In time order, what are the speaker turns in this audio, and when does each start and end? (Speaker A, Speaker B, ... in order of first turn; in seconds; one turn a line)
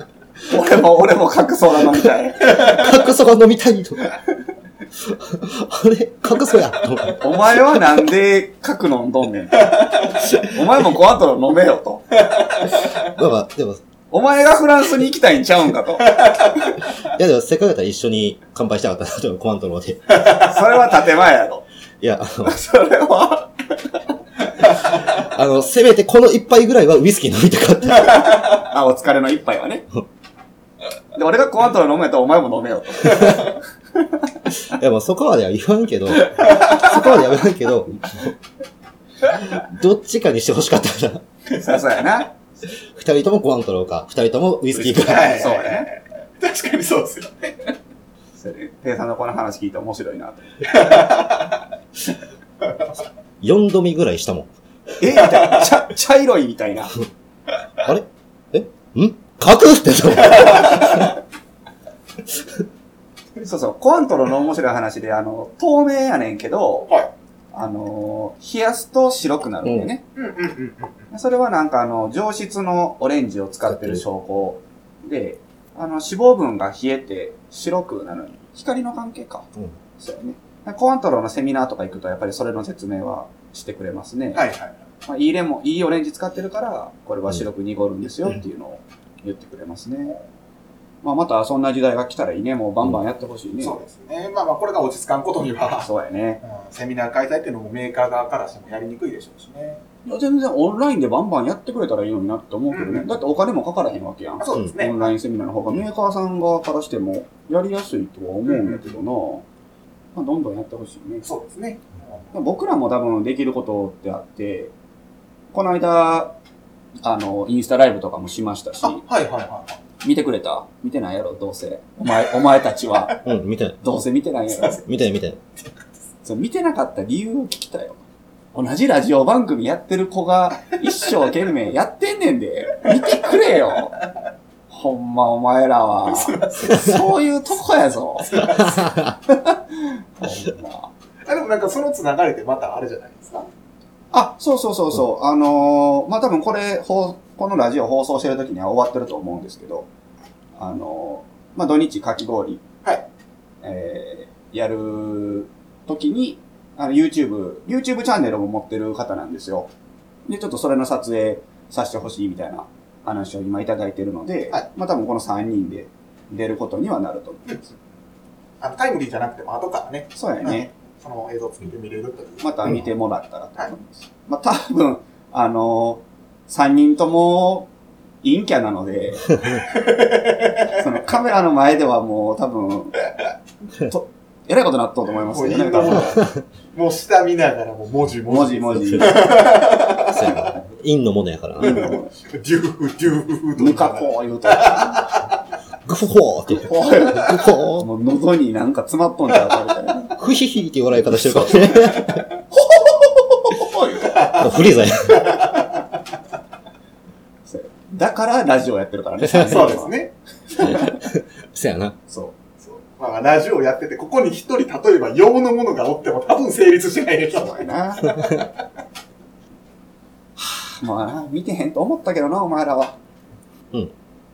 Speaker A: 0.5-2.7
Speaker B: 2.0-4.2
Speaker B: 5.0-8.0
Speaker A: 7.2-12.1
Speaker B: 12.9-13.8
Speaker A: 14.1-16.5
Speaker B: 17.0-20.2
Speaker A: 20.3-21.6
Speaker B: 22.0-22.6
Speaker A: 22.4-23.5
Speaker B: 24.9-28.3
Speaker A: 28.1-29.9
Speaker A: 31.1-33.6
Speaker B: 33.1-33.4
Speaker B: 34.5-38.3
Speaker C: 36.5-36.9
Speaker A: 36.5-36.8
Speaker B: 39.3-41.2
Speaker A: 41.5-42.3
Speaker B: 42.8-45.5
Speaker A: 44.8-45.9
Speaker C: 44.9-47.7
Speaker A: 48.4-50.7
Speaker C: 50.7-51.6
Speaker B: 53.4-54.5
Speaker A: 55.0-57.0
Speaker C: 55.3-55.6
Speaker B: 57.8-61.1
Speaker C: 60.3-61.0
Speaker A: 63.4-66.9
Speaker A: 67.5-70.0
Speaker B: 69.6-69.9
Speaker C: 70.2-71.0
Speaker A: 71.1-79.5
Speaker B: 73.7-74.0
Speaker A: 80.0-84.5
Speaker C: 84.3-84.8
Speaker A: 85.1-90.2
Speaker A: 91.0-93.8
Speaker C: 93.6-95.9
Speaker A: 95.8-96.4
Speaker C: 96.4-99.8
Speaker A: 100.0-109.5
Speaker C: 102.7-103.2
Speaker C: 104.4-105.1
Speaker C: 108.5-109.0
Speaker A: 110.2-111.3
Speaker C: 111.2-112.3
Speaker A: 112.3-114.7
Speaker A: 115.5-116.3
Speaker A: 117.0-119.0
Speaker C: 118.8-119.8
Speaker A: 120.0-123.2
Speaker B: 123.2-123.8
Speaker A: 123.8-124.8
Speaker C: 124.5-124.8
Speaker B: 124.9-125.4
Speaker A: 126.2-128.0
Speaker A: 128.5-133.9
Speaker A: 134.7-138.7
Speaker C: 136.1-137.0
Speaker C: 138.2-138.9
Speaker B: 138.5-139.2
Speaker A: 139.3-140.9
Speaker C: 141.2-143.5
Speaker A: 144.1-149.9
Speaker A: 150.6-152.6
Speaker A: 153.6-159.7
Speaker A: 160.3-167.6
Speaker C: 168.6-172.8
Speaker A: 170.2-170.7
Speaker A: 172.4-177.7
Speaker A: 178.2-179.4
Speaker C: 179.7-180.8
Speaker A: 180.7-183.0
Speaker A: 183.9-186.2
Speaker C: 185.3-190.5
Speaker B: 186.2-186.4
Speaker A: 188.3-189.3
Speaker B: 188.8-189.3
Speaker B: 190.0-191.8
Speaker A: 191.6-192.1
Speaker C: 191.6-195.3
Speaker A: 193.6-195.1
Speaker B: 195.9-197.9
Speaker A: 196.5-200.1
Speaker B: 200.2-202.2
Speaker A: 201.1-204.3
Speaker C: 204.1-204.5
Speaker B: 204.3-205.3
Speaker C: 205.1-205.8
Speaker A: 207.5-209.9
Speaker B: 209.2-209.7
Speaker C: 209.4-210.1
Speaker A: 210.5-211.0
Speaker B: 210.6-212.0
Speaker A: 212.1-212.4
Speaker C: 212.6-218.5
Speaker A: 217.3-218.2
Speaker A: 220.4-223.0